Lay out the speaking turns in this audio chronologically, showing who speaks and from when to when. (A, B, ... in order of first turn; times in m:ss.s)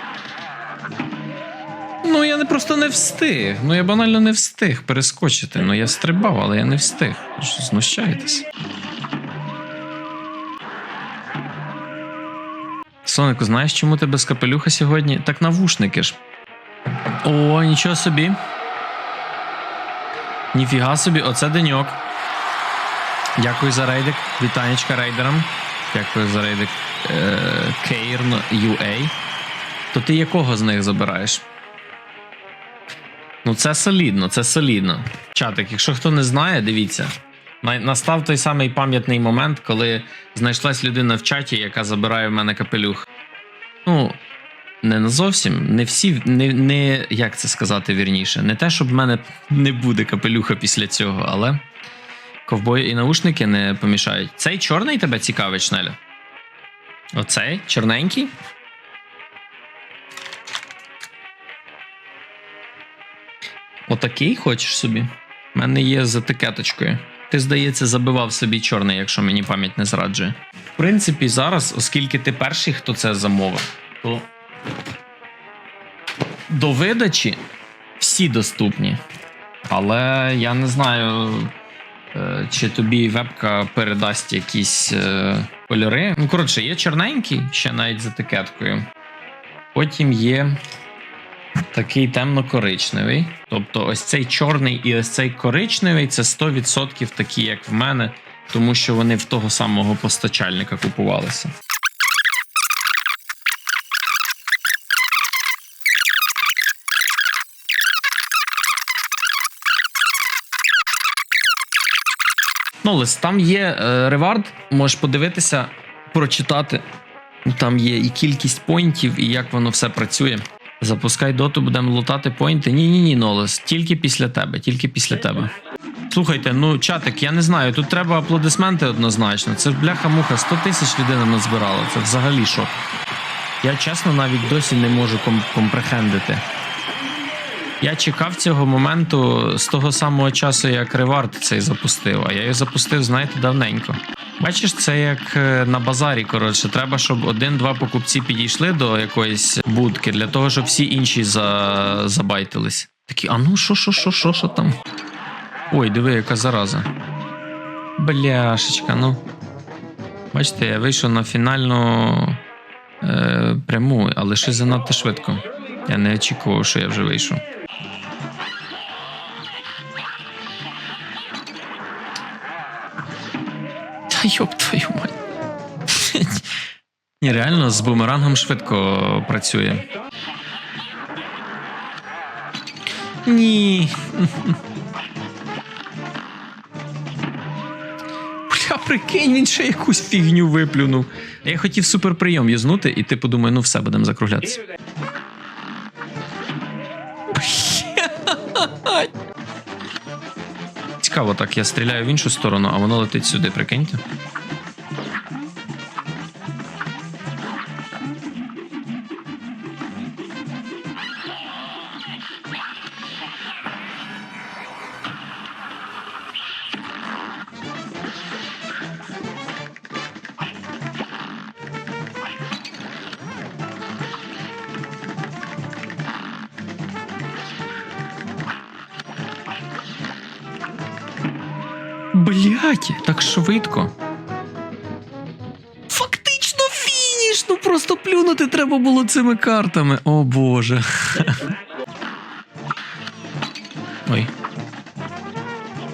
0:02.0-0:08.4 A
0:13.0-0:16.2 A
0:17.2-0:18.4 A
0:20.5-0:22.0 A
0:23.4-0:29.1 A
0:29.9-0:31.4 A
0:33.4-0:43.0 A
0:43.8-0:44.2 A
0:44.8-0:51.6 A
0:52.4-0:56.0 A
0:57.1-0:58.3 A
1:03.9-1:14.3 A
1:16.5-1:17.4 A
1:18.0-1:19.0 A
1:19.7-1:21.5 A
1:22.1-1:28.8 A
1:29.7-1:30.6 A
1:31.7-1:41.5 A
1:52.8-1:56.8 A
1:57.4-2:05.5 A
2:06.1-2:12.8 A
2:13.6-2:16.4 A
2:17.8-2:34.7 A
2:35.7-2:36.9 A
2:38.0-2:39.2 A
2:40.3-2:42.4 A
2:43.0-2:47.4 A
2:54.1-2:55.1 A
2:55.9-2:56.4 A
2:57.2-2:59.9 A
3:03.2-3:04.6 A
3:08.5-3:14.6 A
3:17.3-3:19.1 A
3:21.0-3:24.0 A
3:52.1-3:53.9 A
3:55.9-4:01.5 A
4:04.0-4:04.3 A